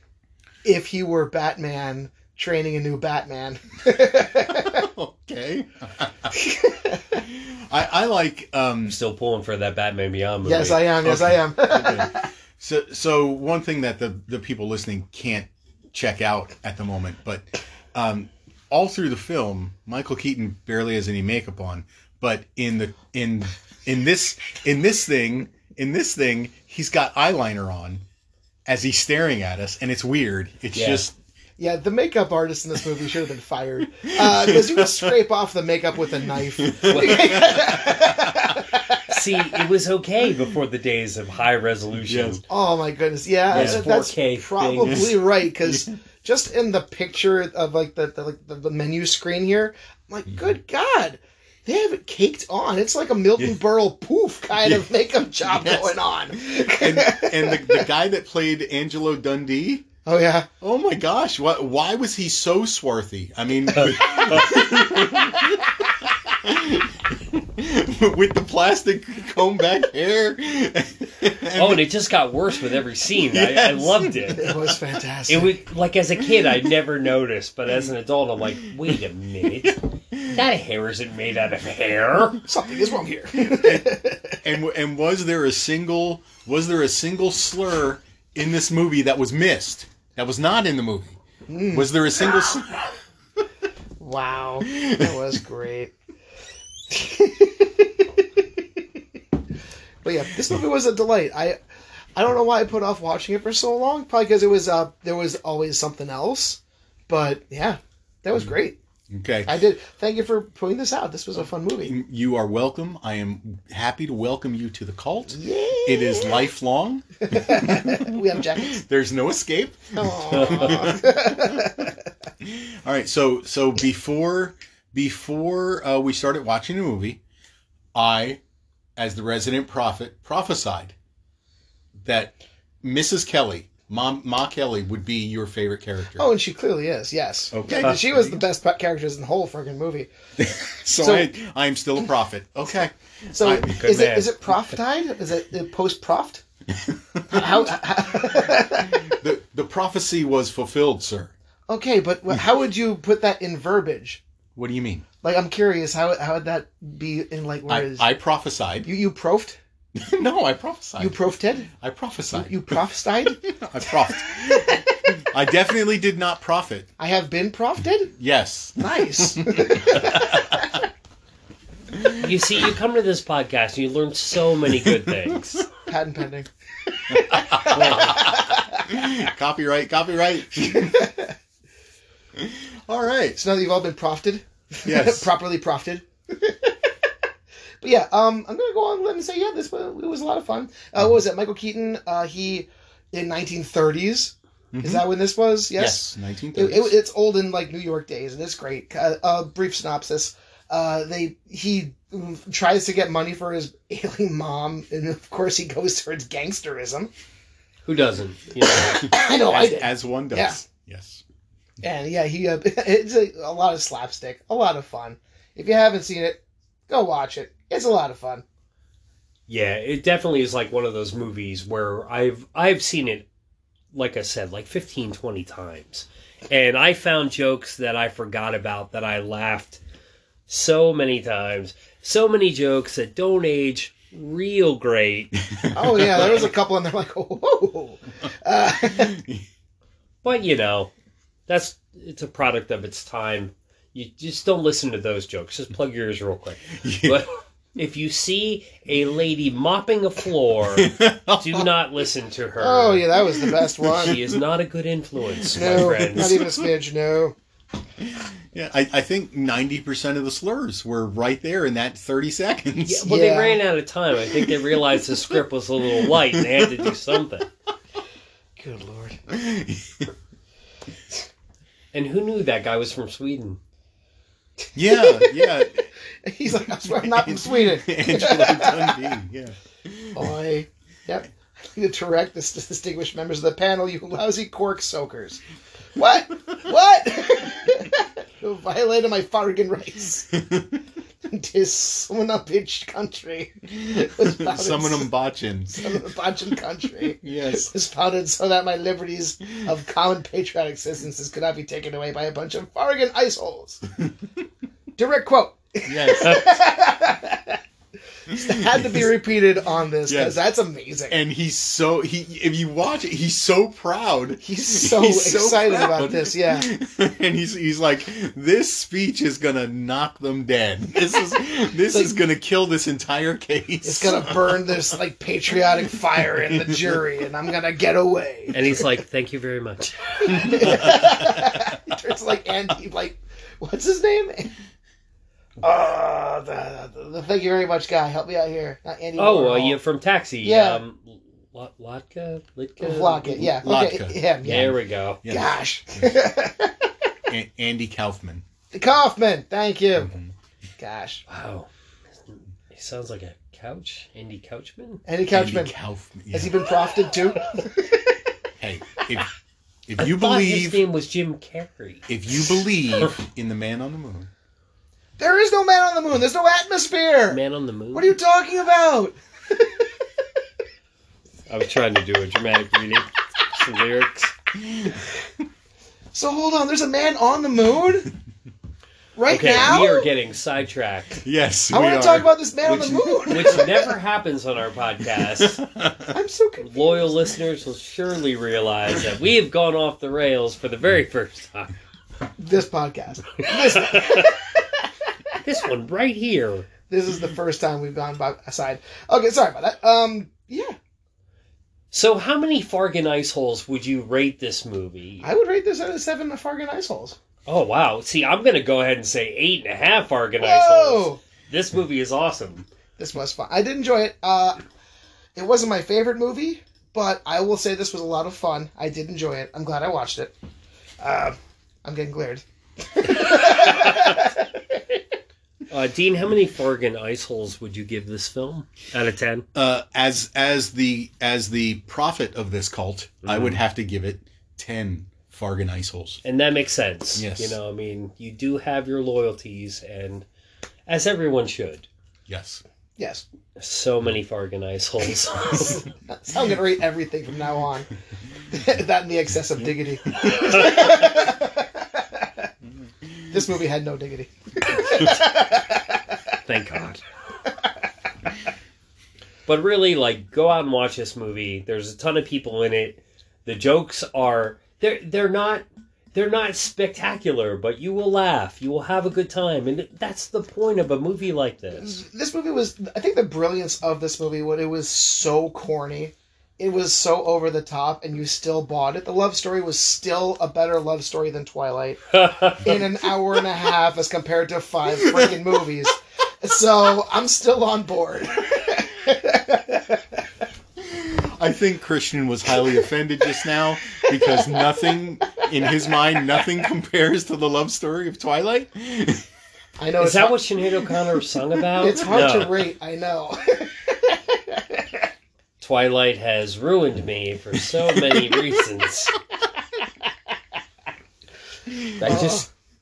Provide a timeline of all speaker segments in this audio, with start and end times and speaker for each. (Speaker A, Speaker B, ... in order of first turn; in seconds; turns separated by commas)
Speaker A: 0.6-4.9, Speaker B: 4.5-6.3, Speaker A: 6.3-7.2, Speaker B: 7.3-9.0, Speaker C: 8.9-11.0, Speaker A: 10.4-12.1, Speaker B: 11.0-28.0, Speaker B: 28.7-31.1, Speaker C: 30.7-31.1, Speaker A: 31.6-39.2, Speaker B: 34.0-35.2, Speaker B: 36.2-38.6, Speaker C: 36.9-37.6, Speaker C: 39.1-42.4, Speaker B: 42.1-42.4, Speaker A: 42.5-57.9, Speaker C: 43.5-45.1, Speaker B: 43.5-43.8, Speaker B: 44.9-45.1, Speaker B: 54.6-59.9, Speaker A: 60.0-60.5, Speaker B: 60.6-65.7, Speaker C: 63.7-64.6, Speaker A: 64.4-65.2, Speaker B: 66.3-71.9, Speaker C: 71.6-74.5, Speaker B: 73.3-74.7, Speaker A: 74.3-75.5, Speaker C: 75.3-82.4, Speaker B: 76.4-76.7, Speaker B: 79.6-80.4, Speaker A: 82.4-84.4, Speaker B: 83.5-83.9, Speaker B: 84.4-91.2, Speaker A: 91.5-91.9, Speaker B: 91.7-92.9, Speaker A: 94.0-95.9, Speaker B: 94.8-95.1, Speaker A: 96.9-98.8, Speaker A: 100.0-101.6, Speaker A: 102.2-108.8, Speaker B: 109.1-109.5, Speaker A: 109.5-112.0, Speaker B: 111.8-121.9, Speaker A: 115.3-116.5, Speaker A: 117.2-118.8, Speaker A: 120.0-122.0, Speaker C: 120.3-121.0, Speaker B: 122.4-127.2, Speaker B: 127.9-128.4, Speaker B: 129.0-130.9, Speaker B: 132.0-136.3, Speaker A: 136.2-140.1, Speaker B: 137.5-138.4, Speaker B: 140.4-143.8, Speaker A: 141.0-141.3, Speaker A: 143.3-146.4, Speaker C: 143.7-144.6, Speaker B: 146.8-147.7, Speaker A: 147.3-149.2, Speaker B: 148.3-151.3, Speaker A: 151.7-154.2, Speaker B: 154.6-155.1, Speaker A: 155.2-158.1, Speaker B: 157.7-158.9, Speaker A: 158.8-159.6, Speaker B: 159.9-161.2, Speaker A: 161.0-161.7, Speaker B: 161.7-162.8, Speaker A: 162.3-165.2, Speaker B: 163.4-164.7, Speaker B: 165.3-166.9, Speaker A: 167.0-168.1, Speaker B: 168.2-170.6, Speaker A: 168.8-170.8, Speaker C: 172.1-175.7, Speaker A: 175.9-179.1, Speaker B: 177.5-181.1, Speaker C: 177.7-178.1, Speaker A: 180.7-181.3, Speaker B: 182.4-183.4, Speaker A: 183.4-186.8, Speaker B: 184.8-185.3, Speaker A: 187.8-207.1, Speaker B: 194.7-195.0, Speaker B: 195.8-197.0, Speaker C: 207.8-209.1, Speaker A: 208.7-210.6, Speaker B: 209.0-211.2, Speaker A: 211.8-218.4, Speaker C: 219.5-223.3, Speaker C: 223.9-229.8, Speaker C: 230.5-235.4, Speaker B: 235.5-236.5, Speaker A: 235.7-239.2, Speaker B: 238.9-239.5, Speaker C: 240.2-240.9, Speaker C: 241.5-253.1, Speaker B: 246.8-247.2, Speaker B: 250.7-251.7, Speaker A: 252.6-254.2, Speaker C: 253.9-256.4, Speaker B: 254.1-254.3, Speaker A: 255.5-257.4, Speaker B: 255.6-256.7, Speaker B: 258.0-263.1, Speaker C: 262.9-267.5, Speaker A: 263.1-263.6, Speaker B: 266.0-266.9, Speaker A: 268.6-269.2, Speaker B: 269.3-270.1, Speaker C: 271.9-273.6, Speaker B: 274.8-275.8, Speaker A: 274.9-275.6, Speaker A: 276.2-279.1, Speaker B: 276.9-280.3, Speaker A: 280.1-285.4, Speaker A: 286.0-290.3, Speaker A: 291.3-295.1, Speaker B: 293.9-296.0, Speaker A: 295.7-303.8, Speaker B: 297.0-297.7, Speaker A: 305.0-307.6, Speaker B: 305.9-306.5, Speaker A: 308.3-311.2, Speaker B: 308.3-309.1, Speaker B: 310.1-310.4, Speaker B: 311.1-324.6, Speaker A: 314.4-316.7, Speaker A: 323.8-328.8, Speaker C: 328.5-330.9, Speaker A: 330.2-334.5, Speaker B: 330.6-331.6, Speaker A: 335.6-339.8, Speaker C: 339.2-343.4, Speaker A: 340.4-340.8, Speaker A: 342.8-346.9, Speaker B: 343.4-346.2, Speaker C: 344.4-345.2, Speaker B: 347.3-348.4, Speaker A: 348.7-350.1, Speaker B: 350.0-350.3, Speaker A: 350.8-351.2, Speaker C: 351.3-351.7, Speaker C: 352.2-355.0, Speaker A: 355.1-355.7, Speaker B: 355.3-356.5, Speaker A: 356.3-358.2, Speaker B: 358.6-359.3, Speaker B: 359.9-360.8, Speaker C: 360.0-362.1, Speaker B: 362.1-364.3, Speaker A: 365.2-367.4, Speaker C: 367.3-368.1, Speaker A: 367.9-370.0, Speaker C: 371.5-374.3, Speaker B: 374.6-375.0, Speaker A: 376.1-378.1, Speaker A: 379.2-380.1, Speaker C: 379.3-381.2, Speaker B: 381.2-382.3, Speaker A: 381.7-383.9, Speaker C: 382.7-385.6, Speaker B: 385.2-386.1, Speaker A: 386.1-387.1, Speaker C: 386.6-391.7, Speaker A: 392.4-395.4, Speaker C: 393.8-394.3, Speaker C: 395.4-396.7, Speaker A: 396.9-400.8, Speaker C: 401.9-405.3, Speaker A: 405.2-407.2, Speaker C: 407.5-412.7, Speaker A: 410.4-411.2, Speaker A: 413.0-414.6, Speaker A: 415.4-420.3, Speaker A: 421.0-424.8, Speaker C: 425.7-429.5, Speaker B: 429.6-436.2, Speaker C: 433.2-433.6, Speaker C: 436.2-440.2, Speaker B: 437.1-437.6, Speaker C: 440.9-441.9, Speaker B: 442.3-442.6, Speaker A: 443.0-443.2, Speaker C: 443.6-445.8, Speaker A: 445.6-447.9, Speaker A: 448.5-452.5, Speaker A: 453.3-456.0, Speaker C: 456.5-457.0, Speaker C: 459.5-471.9, Speaker A: 471.8-490.2, Speaker C: 482.2-482.6, Speaker B: 490.8-499.2, Speaker A: 494.2-494.8, Speaker A: 499.8-500.4, Speaker C: 500.0-502.7, Speaker A: 501.8-505.0, Speaker C: 505.6-509.1, Speaker C: 512.0-512.5, Speaker A: 512.0-512.5